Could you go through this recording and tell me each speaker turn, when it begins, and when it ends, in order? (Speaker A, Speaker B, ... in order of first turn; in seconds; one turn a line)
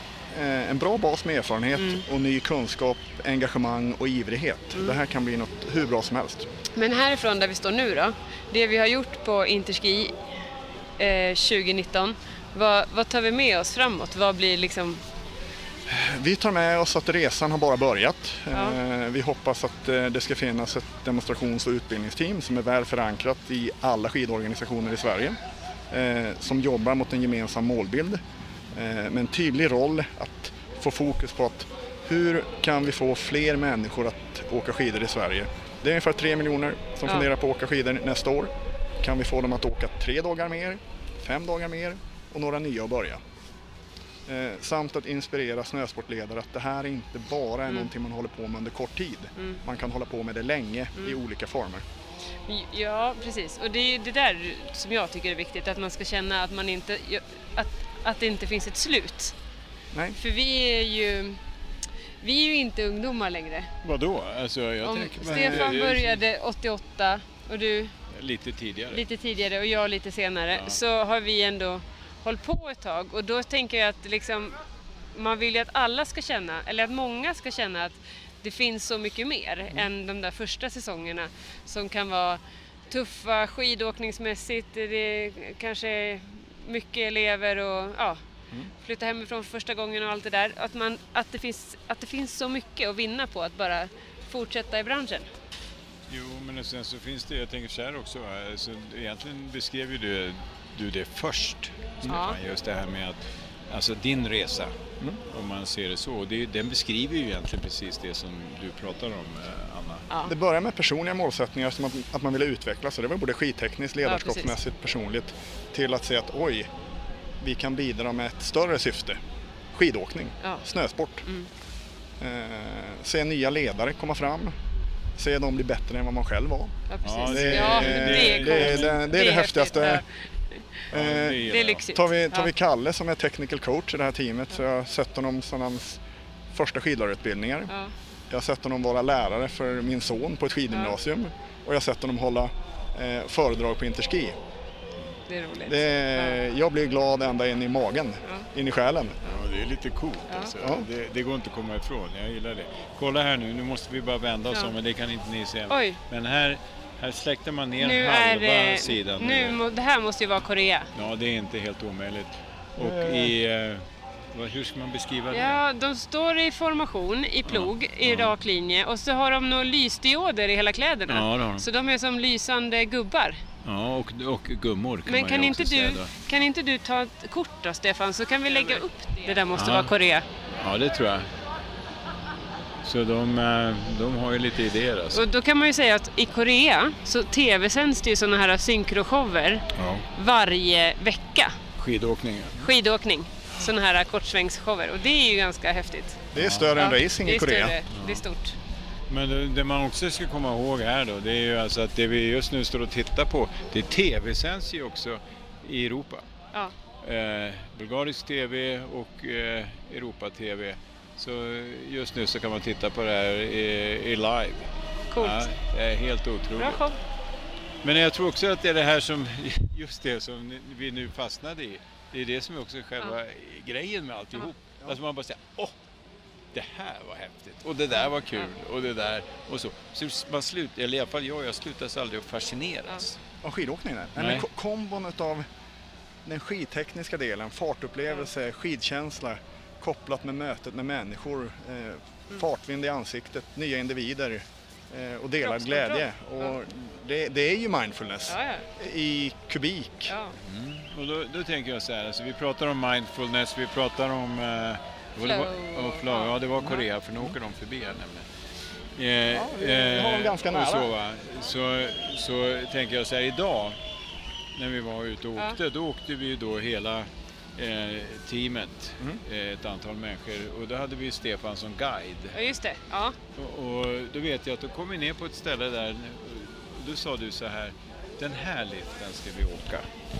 Speaker A: 0.3-6.5
Speaker B: 1.8-2.0
Speaker B: 4.7-5.0
Speaker B: 6.8-10.1
Speaker B: 11.0-15.0
Speaker A: 15.9-25.4
Speaker B: 18.5-18.8
Speaker A: 25.9-28.2
Speaker A: 28.7-43.2
Speaker A: 44.3-51.8
Speaker B: 52.5-59.3
Speaker B: 60.1-61.4
Speaker B: 62.2-63.7
Speaker C: 63.8-66.2
Speaker B: 64.8-67.9
Speaker A: 65.2-65.7
Speaker C: 68.1-69.0
Speaker B: 68.9-74.6
Speaker C: 70.5-70.8
Speaker B: 75.1-88.2
Speaker B: 88.8-95.3
Speaker C: 96.1-104.8
Speaker B: 102.0-102.4
Speaker C: 105.3-110.1
Speaker B: 110.1-110.3
Speaker A: 110.2-116.7
Speaker B: 114.0-114.6
Speaker A: 117.4-119.2
Speaker A: 119.7-121.2
Speaker A: 122.2-124.5
Speaker A: 125.2-126.7
Speaker B: 126.9-130.8
Speaker C: 127.0-129.2
Speaker A: 127.2-130.0
Speaker C: 130.9-131.8
Speaker A: 130.9-136.0
Speaker B: 131.5-132.5
Speaker A: 136.5-137.7
Speaker A: 138.3-144.3
Speaker B: 140.7-141.0
Speaker B: 145.3-146.4
Speaker A: 145.7-149.2
Speaker C: 149.2-159.6
Speaker B: 150.3-150.6
Speaker A: 150.6-150.9
Speaker B: 155.7-156.0
Speaker B: 157.8-160.9
Speaker C: 160.9-165.6
Speaker A: 162.8-163.3
Speaker B: 165.3-173.4
Speaker C: 167.4-168.3
Speaker C: 171.1-171.7
Speaker C: 173.6-176.1
Speaker B: 175.1-180.2
Speaker C: 179.5-179.9
Speaker C: 180.5-181.3
Speaker C: 182.8-185.2
Speaker B: 185.1-191.6
Speaker C: 189.7-190.1
Speaker C: 191.8-192.7
Speaker B: 192.5-196.2
Speaker A: 196.3-197.8
Speaker C: 196.3-196.7
Speaker B: 196.7-198.5
Speaker C: 197.9-198.2
Speaker C: 199.1-206.2
Speaker C: 207.0-216.8
Speaker B: 215.1-215.5
Speaker B: 216.5-217.0
Speaker C: 217.8-225.8
Speaker C: 226.5-233.2
Speaker B: 227.9-228.5
Speaker A: 233.4-235.4
Speaker C: 234.2-234.4
Speaker A: 236.2-250.1
Speaker B: 245.4-246.6
Speaker B: 248.3-248.7
Speaker B: 250.1-250.3
Speaker C: 250.4-258.2
Speaker B: 255.2-256.8
Speaker C: 258.9-263.8
Speaker A: 259.3-260.9
Speaker C: 264.5-272.4
Speaker B: 272.3-273.2
Speaker C: 273.3-279.9